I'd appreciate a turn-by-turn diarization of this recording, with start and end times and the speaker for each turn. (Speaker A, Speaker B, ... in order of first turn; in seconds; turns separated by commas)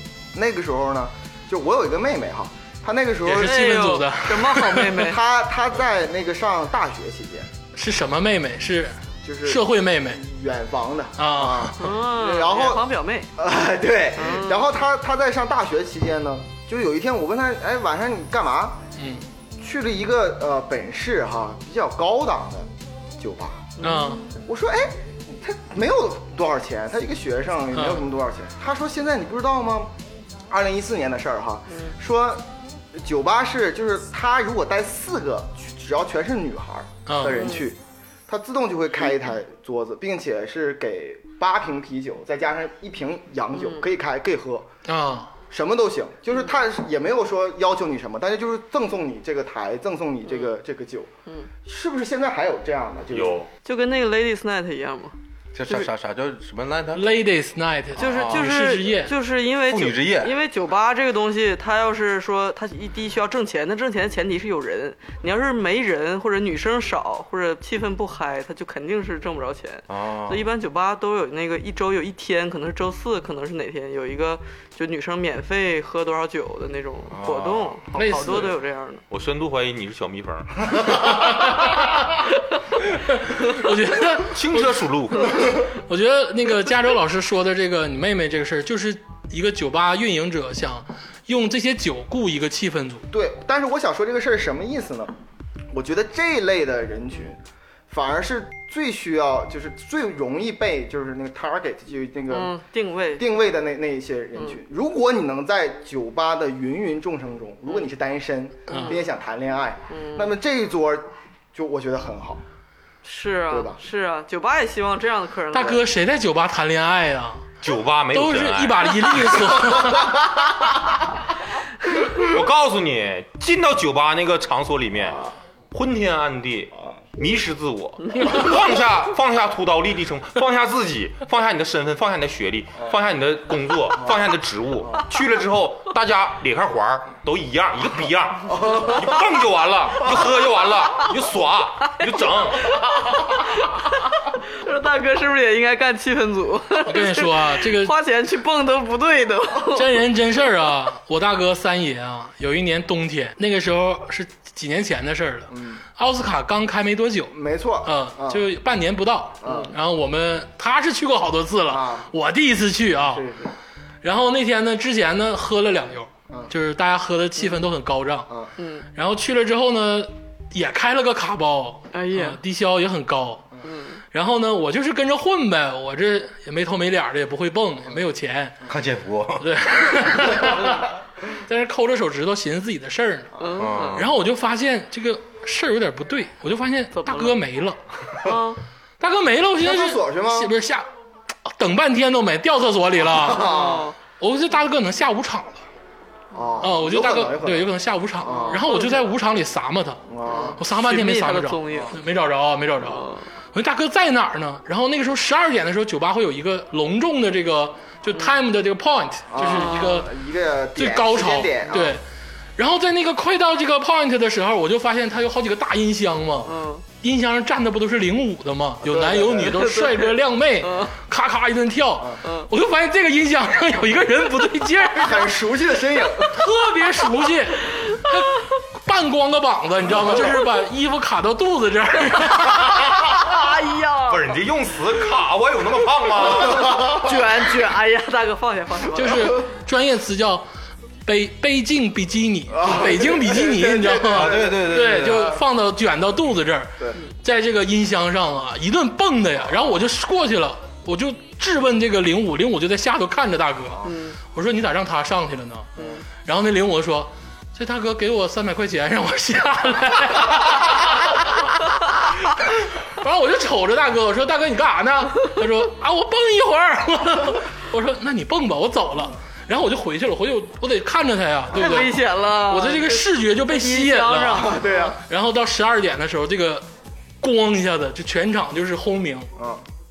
Speaker A: 0.3-3.7, Speaker B: 3.2-5.1, Speaker C: 3.3-5.2, Speaker A: 5.1-7.5, Speaker B: 7.7-10.2, Speaker A: 9.2-18.8, Speaker B: 11.2-11.8, Speaker C: 11.8-13.3, Speaker C: 14.1-14.7, Speaker B: 19.0-19.2, Speaker A: 19.6-22.7, Speaker A: 23.2-23.7, Speaker C: 23.8-24.3, Speaker B: 23.8-24.2, Speaker A: 24.4-29.9, Speaker B: 27.7-28.0, Speaker A: 30.5-44.7, Speaker C: 31.7-31.9, Speaker B: 37.0-37.4, Speaker C: 37.3-37.7, Speaker C: 43.5-43.8, Speaker B: 44.9-45.3, Speaker A: 45.5-51.1, Speaker A: 51.6-53.4, Speaker D: 53.1-53.5, Speaker C: 53.6-55.1, Speaker E: 55.5-57.1, Speaker B: 56.9-59.1, Speaker C: 58.0-79.0, Speaker E: 58.0-58.5, Speaker E: 59.6-60.3, Speaker E: 69.9-70.5, Speaker E: 77.1-77.8, Speaker B: 77.9-78.5, Speaker D: 79.1-81.0, Speaker B: 81.0-82.2, Speaker B: 83.0-84.7, Speaker D: 84.2-85.5, Speaker B: 85.7-93.0, Speaker A: 93.1-95.1, Speaker A: 95.7-102.6, Speaker C: 102.3-103.3, Speaker A: 103.2-112.4, Speaker B: 108.7-109.0, Speaker C: 108.7-109.0, Speaker C: 109.9-110.3, Speaker C: 113.0-115.8, Speaker A: 113.5-113.8, Speaker B: 115.5-117.5, Speaker D: 117.6-119.5, Speaker B: 118.1-120.2, Speaker D: 122.1-142.8, Speaker A: 138.5-139.0, Speaker C: 143.6-149.9, Speaker B: 146.8-147.9, Speaker B: 149.7-157.3, Speaker A: 155.5-155.8, Speaker A: 157.3-158.4, Speaker B: 157.8-163.2, Speaker A: 159.4-159.7, Speaker A: 161.7-162.1, Speaker A: 163.0-163.5, Speaker B: 164.0-168.3, Speaker C: 168.6-168.9, Speaker B: 168.9-173.4, Speaker C: 171.9-172.4, Speaker C: 173.6-174.0, Speaker B: 174.1-178.6, Speaker E: 178.7-179.6, Speaker B: 179.4-183.3, Speaker C: 183.4-184.0, Speaker E: 183.6-184.1, Speaker B: 183.9-187.8, Speaker C: 186.9-187.4, Speaker C: 188.2-188.6, Speaker B: 189.0-190.8, Speaker A: 189.6-190.5, Speaker B: 191.4-193.5, Speaker A: 193.1-193.9, Speaker C: 193.4-193.9, Speaker B: 194.2-195.6, Speaker A: 196.3-197.7, Speaker B: 196.6-200.0, Speaker A: 198.2-198.6, Speaker C: 198.2-199.0, Speaker A: 200.1-200.6, Speaker C: 200.2-202.0, Speaker B: 200.6-210.1, Speaker C: 202.8-203.3, Speaker A: 209.3-212.0, Speaker C: 209.4-210.0, Speaker B: 210.8-212.0, Speaker B: 212.6-225.3, Speaker C: 216.4-216.8, Speaker A: 218.8-219.6, Speaker C: 219.5-220.9, Speaker C: 222.2-222.5, Speaker A: 224.9-226.4, Speaker B: 226.2-232.9, Speaker C: 232.4-234.3, Speaker D: 234.1-236.8, Speaker C: 236.2-239.4, Speaker B: 238.9-240.4, Speaker B: 241.0-255.7, Speaker A: 242.5-245.3, Speaker E: 244.0-245.4, Speaker C: 253.8-254.2, Speaker C: 255.8-256.0, Speaker B: 256.2-261.2, Speaker B: 262.9-276.6, Speaker C: 271.5-274.9, Speaker A: 274.4-275.0, Speaker B: 277.2-279.3, Speaker A: 279.4-279.6